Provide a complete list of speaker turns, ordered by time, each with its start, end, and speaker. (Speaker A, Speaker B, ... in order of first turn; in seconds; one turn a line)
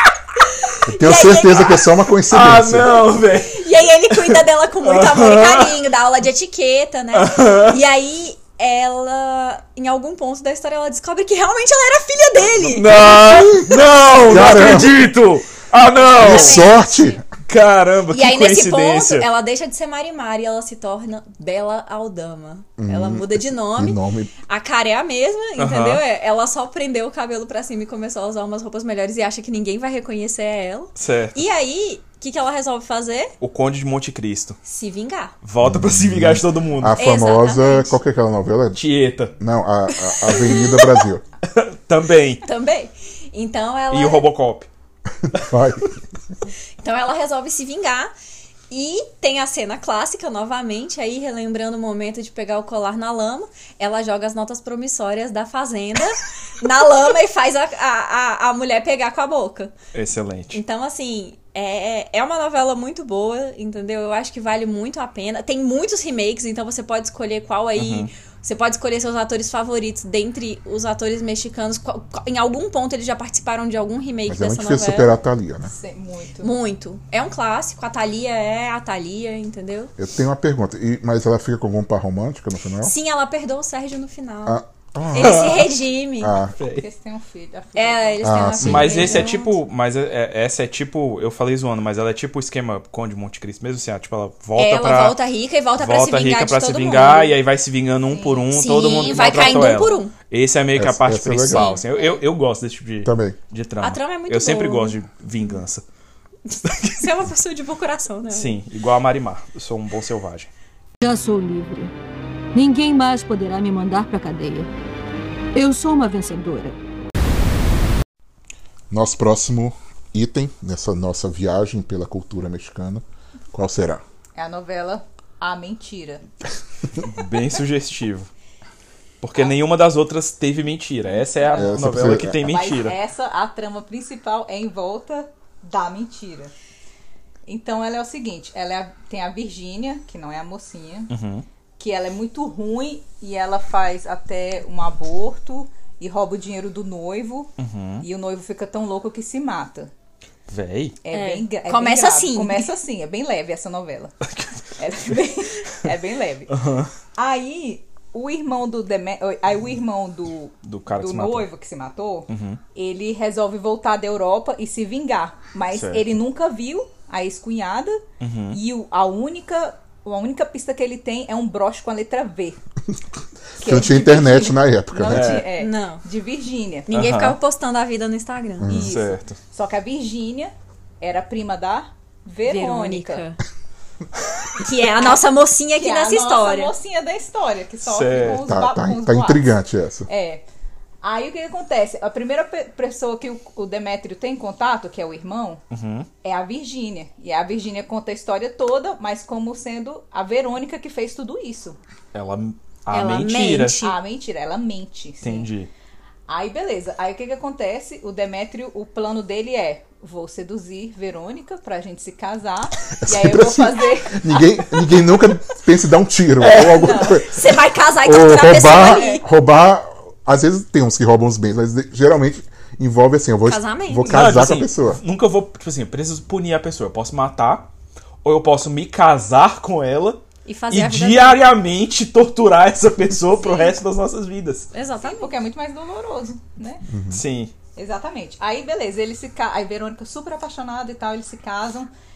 Speaker A: 0.9-3.1
Speaker B: 0.9-1.8
Speaker C: 2.3-5.7
Speaker B: 3.5-13.0
Speaker C: 7.1-7.8
Speaker C: 12.6-16.7
Speaker A: 13.0-15.0
Speaker B: 16.1-17.2
Speaker A: 16.1-17.2
Speaker C: 17.4-19.3
Speaker B: 18.1-33.3
Speaker A: 22.8-24.3
Speaker C: 25.6-26.0
Speaker C: 31.0-31.4
Speaker C: 33.4-34.6
Speaker B: 34.6-35.3
Speaker C: 35.4-37.0
Speaker A: 35.6-38.8
Speaker B: 36.9-38.0
Speaker C: 38.7-39.3
Speaker A: 39.4-41.2
Speaker B: 40.1-41.0
Speaker C: 41.5-42.4
Speaker B: 42.4-44.2
Speaker C: 43.9-44.7
Speaker A: 45.4-45.9
Speaker B: 46.8-48.1
Speaker B: 48.7-59.7
Speaker C: 59.9-60.6
Speaker B: 60.5-75.1
Speaker C: 67.8-68.1
Speaker A: 74.3-75.7
Speaker D: 75.6-76.5
Speaker B: 76.4-79.9
Speaker A: 80.0-82.9
Speaker B: 82.8-84.6
Speaker A: 84.5-85.7
Speaker B: 85.1-86.4
Speaker C: 85.1-85.7
Speaker A: 86.2-86.6
Speaker C: 86.6-86.8
Speaker D: 86.8-89.1
Speaker B: 87.8-89.5
Speaker A: 88.2-89.2
Speaker C: 88.6-95.2
Speaker B: 94.5-97.4
Speaker C: 95.8-105.8
Speaker D: 98.1-98.5
Speaker B: 98.5-100.1
Speaker D: 99.0-99.8
Speaker A: 100.7-101.8
Speaker B: 101.5-102.1
Speaker A: 103.0-103.4
Speaker B: 103.8-105.0
Speaker B: 106.5-108.6
Speaker C: 106.6-107.1
Speaker C: 108.3-110.5
Speaker E: 111.0-111.9
Speaker E: 112.5-114.7
Speaker E: 115.5-116.8
Speaker A: 118.9-124.0
Speaker D: 124.3-126.2
Speaker C: 127.0-128.3
Speaker C: 129.2-133.0
Speaker D: 131.1-131.8
Speaker A: 131.5-132.4
Speaker D: 132.4-136.5
Speaker D: 137.5-141.1
Speaker C: 141.1-141.4
Speaker D: 141.8-149.9
Speaker C: 147.6-148.0
Speaker C: 150.5-151.0
Speaker D: 151.0-154.1
Speaker B: 151.1-152.7
Speaker C: 154.3-154.6
Speaker D: 154.8-156.6
Speaker C: 156.5-156.9
Speaker D: 157.1-172.6
Speaker C: 160.6-161.5
Speaker C: 162.3-162.6
Speaker C: 165.7-166.1
Speaker C: 168.2-168.6
Speaker A: 173.6-175.4
Speaker D: 173.6-176.9
Speaker C: 175.1-175.5
Speaker B: 175.5-176.0
Speaker B: 176.9-178.7
Speaker C: 176.9-177.4
Speaker A: 178.6-178.9
Speaker D: 178.7-183.2
Speaker C: 178.8-179.4
Speaker B: 182.4-183.4
Speaker B: 184.6-186.7
Speaker D: 185.8-189.5
Speaker C: 187.8-188.4
Speaker A: 188.4-190.1
Speaker D: 190.1-190.4
Speaker D: 191.0-195.6
Speaker C: 195.7-196.1
Speaker D: 196.2-201.8
Speaker C: 202.1-203.8
Speaker B: 202.9-204.0
Speaker D: 203.8-205.5
Speaker C: 205.2-205.7
Speaker D: 206.3-214.8
Speaker A: 213.0-225.0
Speaker C: 216.4-216.8
Speaker D: 216.7-217.2
Speaker B: 216.8-219.2
Speaker D: 218.6-219.2
Speaker B: 223.4-224.2
Speaker C: 224.1-227.7
Speaker C: 228.2-234.7
Speaker B: 230.4-231.4
Speaker B: 234.7-235.4
Speaker D: 235.0-236.8
Speaker A: 236.9-237.2
Speaker C: 237.1-237.5
Speaker D: 237.7-241.9